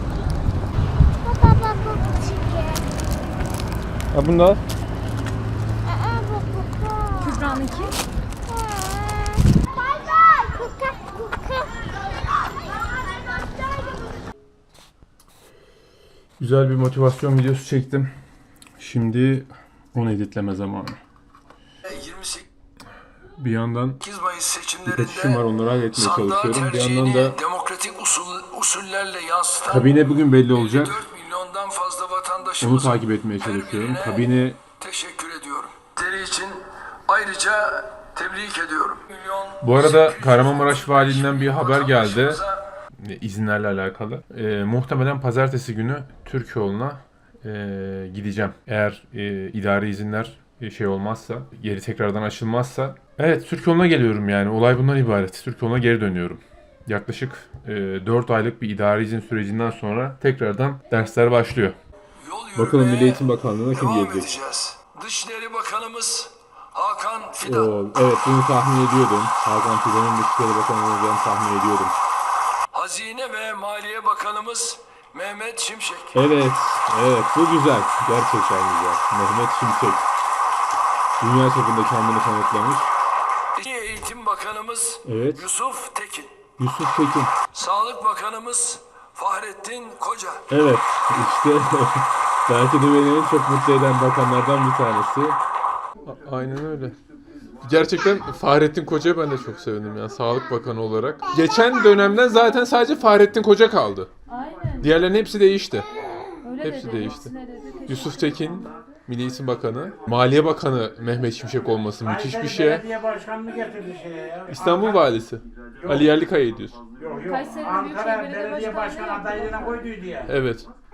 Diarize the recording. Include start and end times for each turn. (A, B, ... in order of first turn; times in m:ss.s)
0:01.2-0:02.9 A
0:04.1-0:04.6 B
0:05.9-0:07.9 A
0:07.2-0:08.0 C
0:08.5-0:14.2 A
0:16.4-0:18.1 B
0:18.8-0:21.0 B
0:21.9-0:22.5 D
0:23.4-0:24.0 B
0:24.0-0:29.9 D
0:24.8-0:27.4 B
0:29.7-0:31.0 B
0:30.5-0:34.3 D
0:32.6-0:34.6 B
0:34.8-0:42.6 D
0:39.6-0:42.4 B
0:43.0-1:01.8 B
1:02.2-1:07.7 D
1:02.6-1:04.3 B
1:07.4-1:12.0 B
1:12.7-1:16.2 D
1:16.1-1:20.1 B
1:21.2-1:22.9 B
1:23.6-1:26.4 D
1:25.0-1:25.5 B
1:26.6-1:27.3 B
1:27.5-1:30.4 D
1:30.5-1:35.4 B
1:36.0-1:37.0 B
1:37.6-1:44.1 B
1:41.3-1:42.1 A
1:44.3-1:45.0 C
1:44.8-1:45.9 B
1:46.4-1:48.8 C
1:46.6-1:47.3 B
1:47.9-1:52.9 B
1:52.0-1:55.0 E
1:54.5-1:56.8 B
1:55.8-1:56.2 E
1:57.0-2:00.3 E
1:57.3-1:59.8 C
2:00.3-2:00.7 B